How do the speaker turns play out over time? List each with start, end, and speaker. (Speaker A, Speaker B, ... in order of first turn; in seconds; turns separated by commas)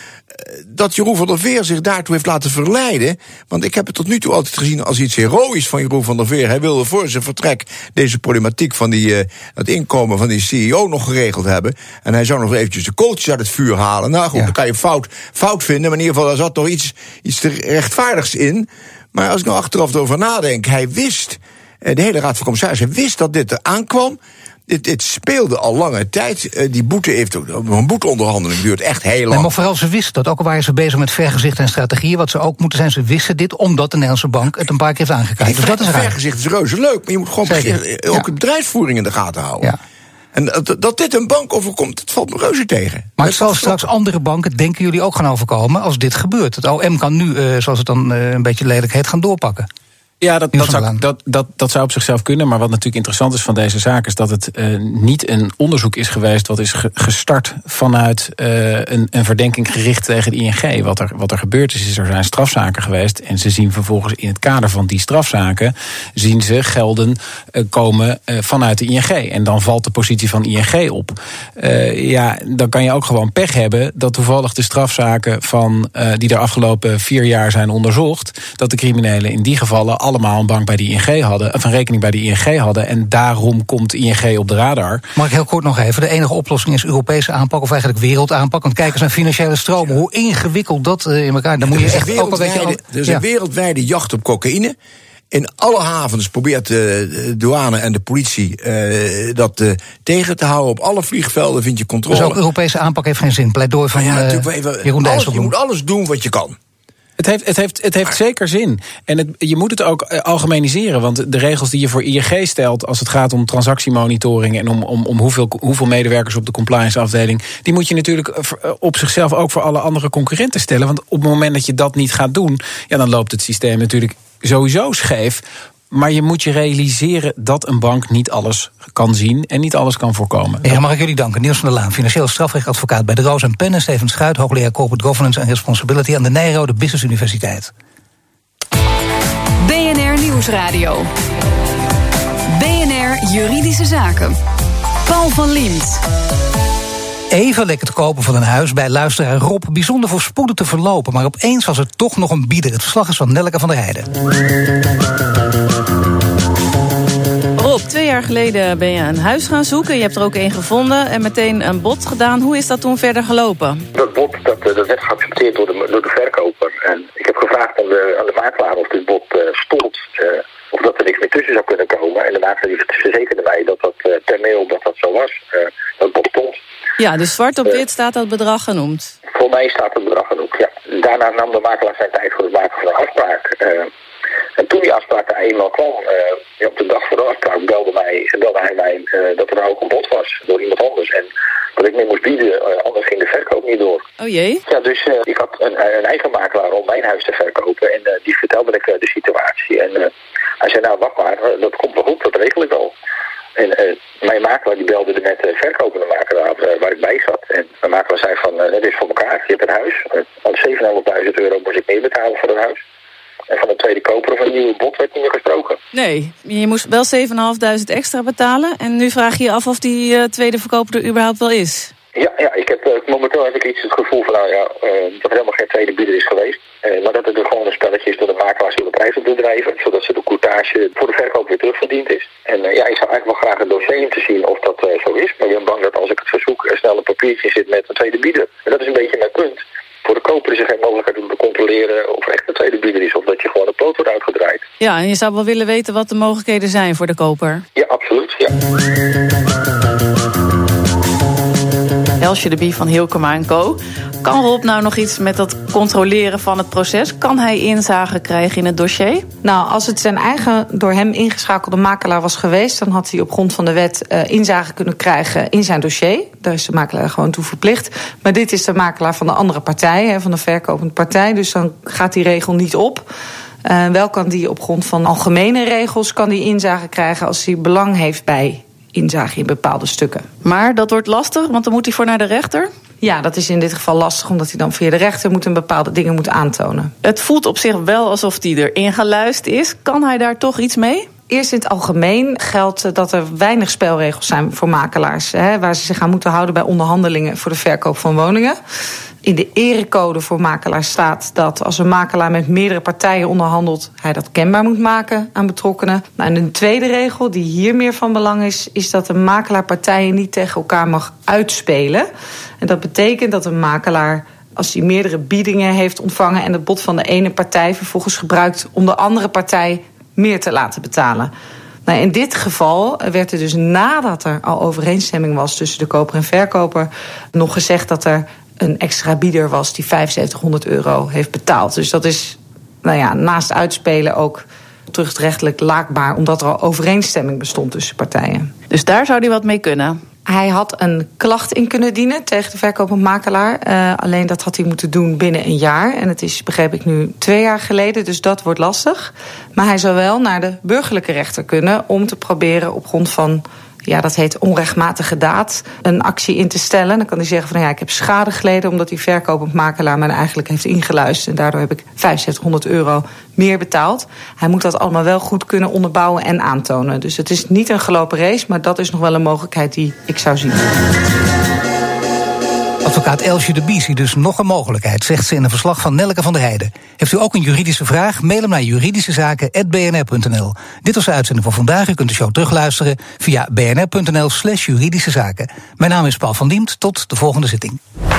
Speaker A: 0.3-29.5, Speaker B: 29.3-36.1, Speaker A: 35.4-39.7, Speaker B: 37.5-38.3, Speaker A: 40.3-43.8, Speaker B: 43.2-49.7, Speaker C: 50.2-85.0, Speaker B: 50.5-51.0, Speaker B: 85.2-93.2, Speaker A: 91.7-94.8, Speaker A: 95.3-102.4, Speaker B: 102.1-105.5, Speaker A: 104.0-106.6, Speaker C: 107.2-130.8, Speaker B: 130.6-137.7, Speaker D: 139.6-141.1, Speaker D: 142.5-144.4, Speaker D: 145.0-146.0, Speaker B: 147.3-154.1, Speaker E: 157.6-163.8, Speaker F: 163.9-176.6, Speaker E: 177.0-179.1, Speaker F: 179.3-183.9, Speaker F: 184.6-194.1, Speaker E: 194.2-194.6, Speaker F: 194.7-200.1, Speaker F: 200.6-202.9, Speaker F: 203.6-212.8, Speaker F: 213.5-215.8, Speaker E: 215.9-221.9, Speaker F: 222.2-244.6, Speaker E: 244.8-247.6, Speaker F: 247.8-248.5, Speaker E: 252.2-259.3, Speaker G: 259.4-273.1, Speaker G: 273.6-280.3, Speaker E: 280.4-282.7, Speaker G: 283.0-286.9, Speaker E: 287.0-291.1, Speaker G: 291.3-298.6, Speaker G: 299.2-312.1, Speaker G: 312.6-321.3, Speaker G: 321.9-338.5, Speaker E: 338.7-340.0, Speaker G: 340.3-370.7, Speaker B: 372.9-387.8